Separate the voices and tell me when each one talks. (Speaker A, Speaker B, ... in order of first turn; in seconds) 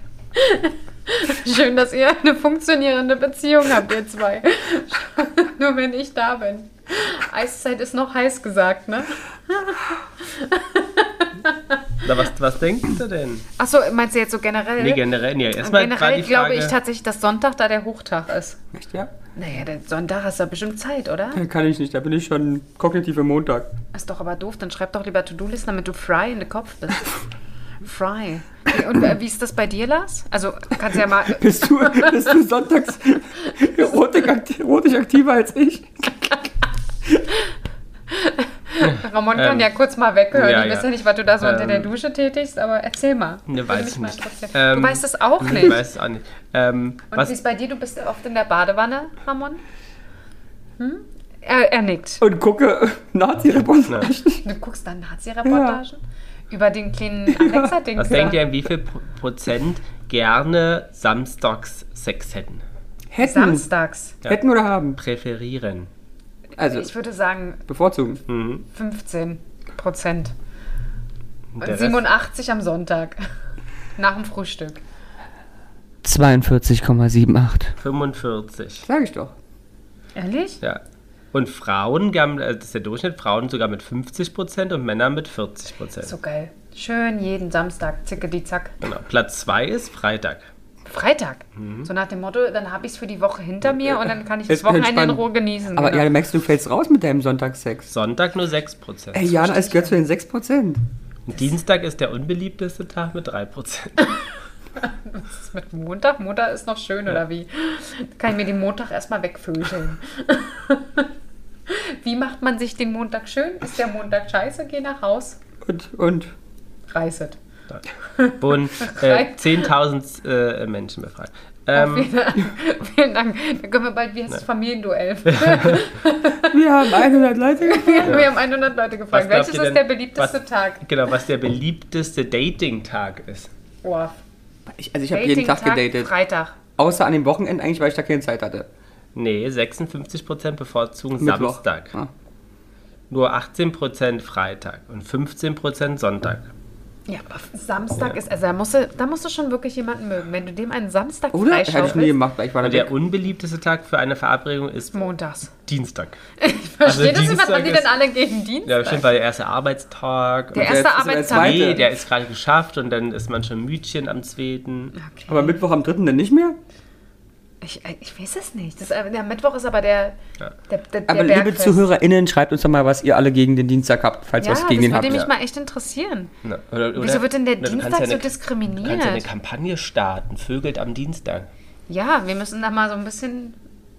Speaker A: 0.3-11.8, 13.6-15.0, 15.6-18.6, 19.4-21.4, 23.9-27.1, 27.8-32.4, 38.1-45.8, 47.1-49.6, 50.8-52.2, 54.4-58.4, 63.2-64.2, 66.6-67.6, 68.7-70.3, 71.6-73.2, 74.0-74.8, 80.1-80.6, 86.0-88.7, 90.8-96.1, 99.3-100.0, 104.8-111.1, 111.7-115.4, 116.9-117.4, 118.1-119.7, 121.7-130.8, 133.8-134.2, 135.1-136.6, 147.1-152.2, 154.9-155.5, 156.4-159.1, 160.5-161.9, 164.9-165.6, 167.6-170.2, 170.7-171.8, 174.4-176.3, 176.9-179.3, 181.9-183.6
Speaker B: 12.0-13.4, 14.8-16.7, 38.8-39.7, 40.3-41.9, 43.5-47.3, 58.0-62.6, 65.0-65.9, 68.3-68.7, 71.5-72.0, 77.8-78.8, 81.3-86.1, 88.8-90.5, 91.5-91.9, 97.9-99.3, 101.2-104.2, 118.4-122.1, 125.3-125.8, 128.0-128.3, 129.1-133.5, 139.1-141.9, 143.1-146.5, 152.6-155.1, 155.7-156.2, 156.8-158.0, 158.7-164.9, 176.4-181.5
Speaker C: 18.7-19.1, 21.3-23.7, 31.3-36.3, 52.2-54.4, 55.4-55.8, 57.3-57.7, 63.1-63.7, 64.2-65.0, 66.6-66.9, 67.7-68.2, 76.0-77.8, 78.8-79.3, 94.5-97.9, 99.1-100.8, 115.6-116.3, 126.5-128.2, 134.7-136.1, 136.8-138.7, 141.2-142.1, 151.3-152.9, 160.5-161.8, 165.3-166.6, 171.1-175.2